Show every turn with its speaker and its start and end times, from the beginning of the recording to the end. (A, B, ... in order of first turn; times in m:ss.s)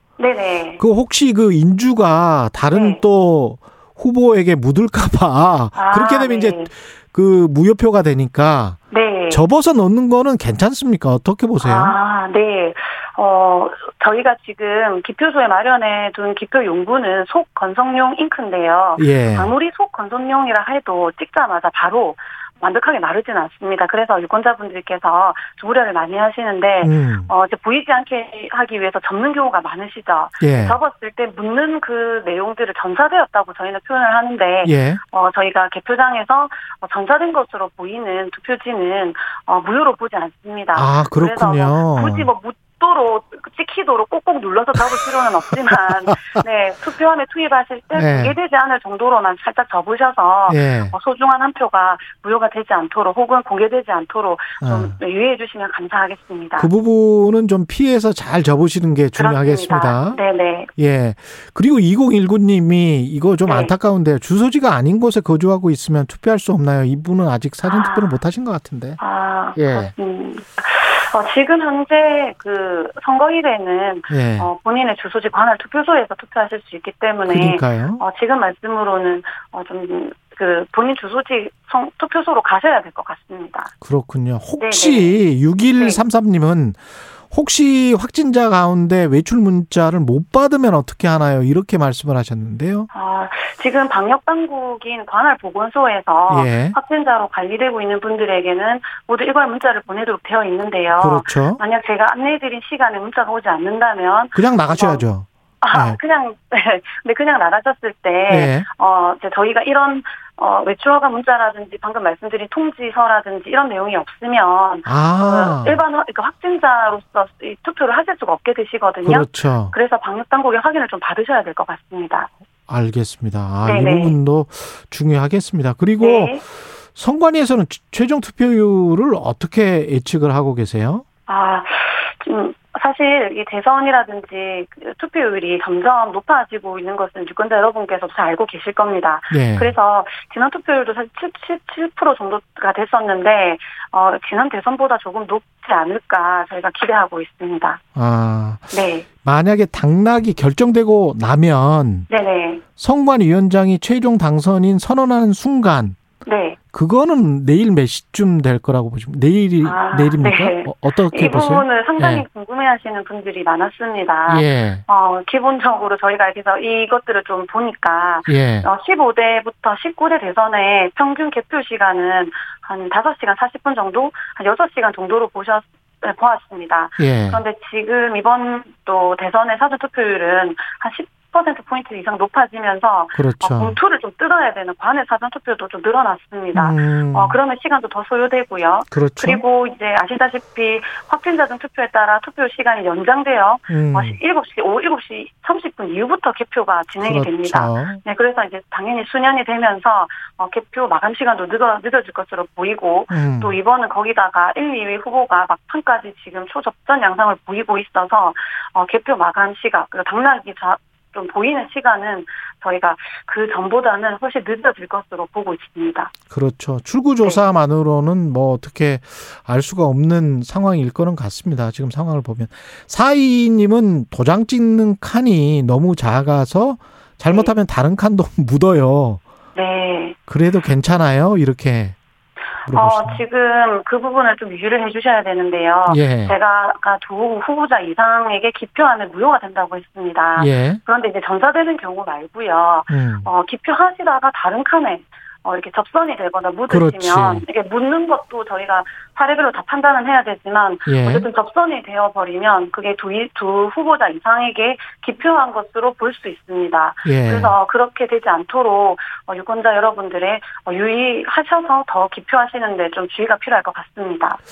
0:00.2-0:00.8 A
0:00.8-0:08.8 B
0:02.7-0:03.0 A
0:05.8-0:06.7 A
0:08.9-0:09.4 A
0:09.3-0:12.0 B
0:11.6-0:56.7 A
0:19.0-0:19.5 B
0:26.8-0:27.3 B
0:30.4-0:30.8 B
0:34.6-0:35.0 B
0:40.7-0:42.3 B
0:45.9-0:46.4 B
0:47.9-0:48.4 B
0:50.5-0:50.9 B
0:54.6-0:55.0 B
0:56.6-1:00.2 B
0:59.2-1:00.7 A
1:00.8-1:09.0 B
1:03.5-1:03.7 A
1:07.6-1:08.2 A
1:09.0-1:23.7 A
1:09.6-1:09.9 B
1:14.1-1:14.5 B
1:17.3-1:18.0 B
1:23.8-1:32.9 B
1:24.6-1:25.2 A
1:25.8-1:26.0 A
1:32.9-1:45.1 A
1:36.3-1:36.8 B
1:40.9-1:41.6 B
1:44.4-1:46.0 B
1:45.6-2:02.3 A
1:48.3-1:48.7 B
1:54.9-1:55.8 B
1:59.0-1:59.8 B
2:02.7-2:11.0 B
2:03.6-2:04.2 A
2:06.0-2:06.4 A
2:11.3-2:27.8 A
2:19.3-2:19.8 B
2:28.0-2:32.1 B
2:28.7-2:29.1 A
2:32.1-2:32.6 A
2:32.8-2:36.0 B
2:36.2-2:36.6 A
2:36.7-2:42.2 B
2:39.6-3:36.1 A
2:44.3-2:44.8 B
2:48.3-2:48.7 B
2:57.0-2:57.4 B
3:03.2-3:03.8 B
3:06.5-3:07.4 B
3:08.9-3:09.4 B
3:13.7-3:14.2 B
3:17.0-3:18.0 B
3:23.1-3:23.6 B
3:36.3-3:49.2 B
3:47.3-3:47.6 A
3:49.6-3:50.2 A
3:50.3-3:52.0 B
3:52.7-3:53.2 B
3:52.7-4:24.4 A
3:55.9-3:56.4 B
4:00.4-4:00.8 B
4:02.9-4:03.3 B
4:06.7-4:07.4 B
4:10.9-4:11.3 B
4:17.0-4:17.6 B